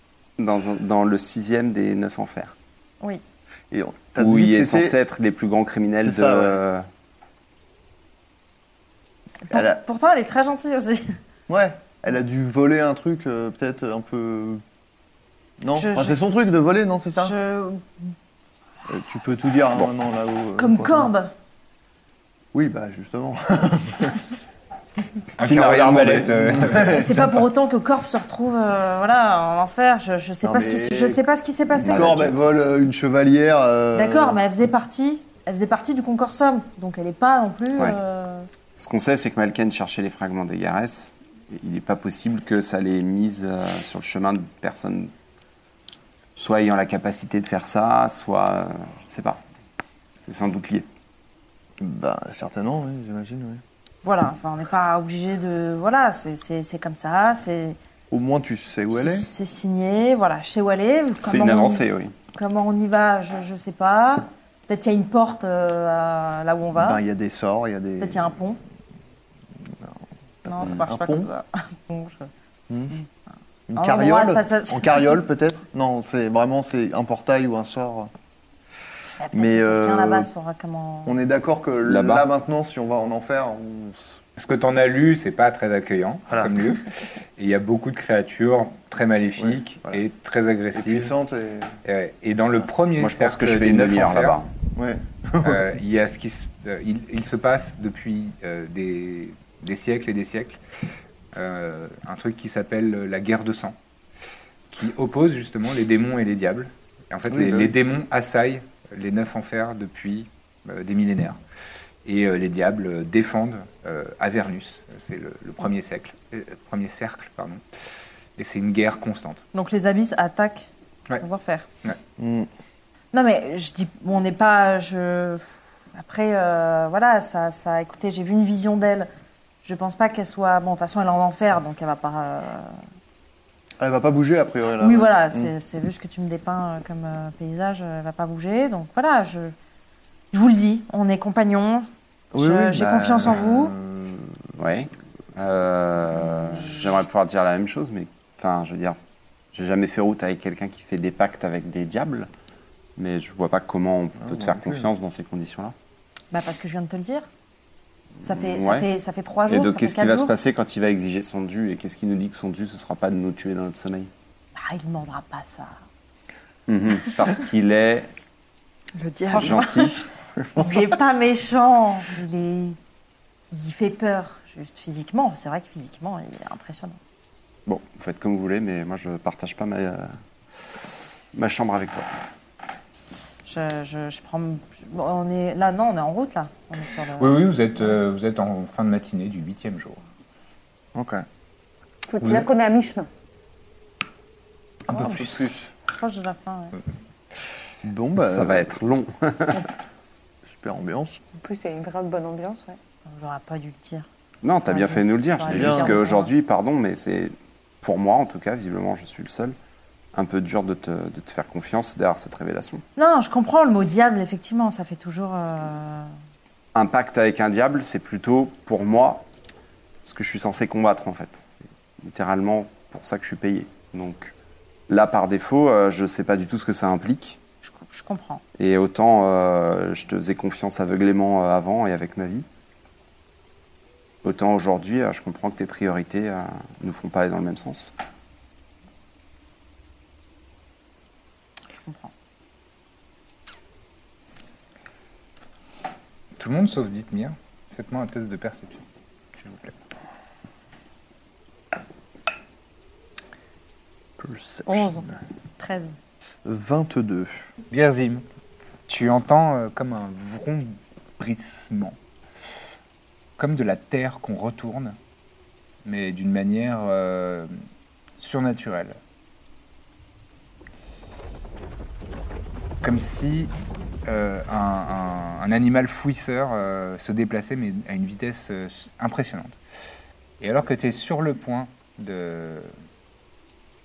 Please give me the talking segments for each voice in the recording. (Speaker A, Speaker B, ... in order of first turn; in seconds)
Speaker A: 0.4-2.5, 4.2-6.8, 25.4-26.3, 31.8-32.4, 38.8-45.1, 46.4-49.4, 50.2-50.9, 61.2-62.1, 81.8-82.3, 93.0-94.5, 144.6-149.0, 149.5-152.3, 153.0-155.7, 158.2-158.9, 159.5-164.1, 166.7-168.1, 169.3-170.0, 177.7-180.8, 181.3-182.1, 198.2-199.6, 204.4-209.6, 210.1-212.8, 216.7-219.2, 220.1-224.3, 224.9-227.4, 228.6-232.4, 234.2-237.9
Speaker B: 3.7-5.0, 6.0-6.6, 9.5-9.8, 11.5-14.6, 15.6-17.4, 18.9-21.1, 22.5-24.2, 26.2-27.1, 30.4-31.2, 31.8-34.4, 51.8-53.6, 58.1-59.3, 66.7-68.3, 70.4-71.3, 72.7-73.0, 73.7-78.1, 79.3-80.3, 81.1-84.2, 86.3-86.7, 89.4-90.0, 90.7-91.7, 94.7-95.7, 107.3-107.7, 122.2-122.5, 133.8-135.5, 142.3-144.4, 154.2-154.9, 190.9-191.2, 194.9-195.7, 197.8-198.7, 200.4-201.2, 205.5-206.0, 254.2-255.1, 256.4-257.4
Speaker C: 9.5-11.2, 15.8-16.4, 17.2-18.0, 20.6-21.3, 26.8-32.2, 34.0-38.5, 54.0-57.8, 58.9-67.0, 68.0-68.6, 70.5-72.3, 73.8-75.1, 79.2-81.2, 119.5-120.7, 121.2-121.7, 123.1-129.1, 129.6-132.8, 134.8-139.5, 140.3-143.7, 156.3-157.3, 158.3-160.3, 164.6-165.8, 169.0-172.8, 173.5-177.0, 183.4-187.3, 195.9-196.8, 203.1-204.1, 204.7-206.3, 212.9-216.1, 227.6-228.4, 241.8-242.1, 255.6-255.9
Speaker D: 25.4-27.4, 84.4-91.1, 91.8-94.4, 95.4-100.6, 101.3-103.8, 104.7-111.4, 112.0-117.6, 118.4-119.4, 187.2-190.0, 192.2-192.5, 246.4-248.8, 249.4-249.7, 257.7-258.2, 258.9-262.0, 263.4-264.9, 265.8-267.5, 268.2-269.0, 272.8-273.5, 274.1-279.6, 280.4-282.7
Speaker E: 169.2-169.7, 192.1-193.1, 201.4-202.8, 254.7-255.1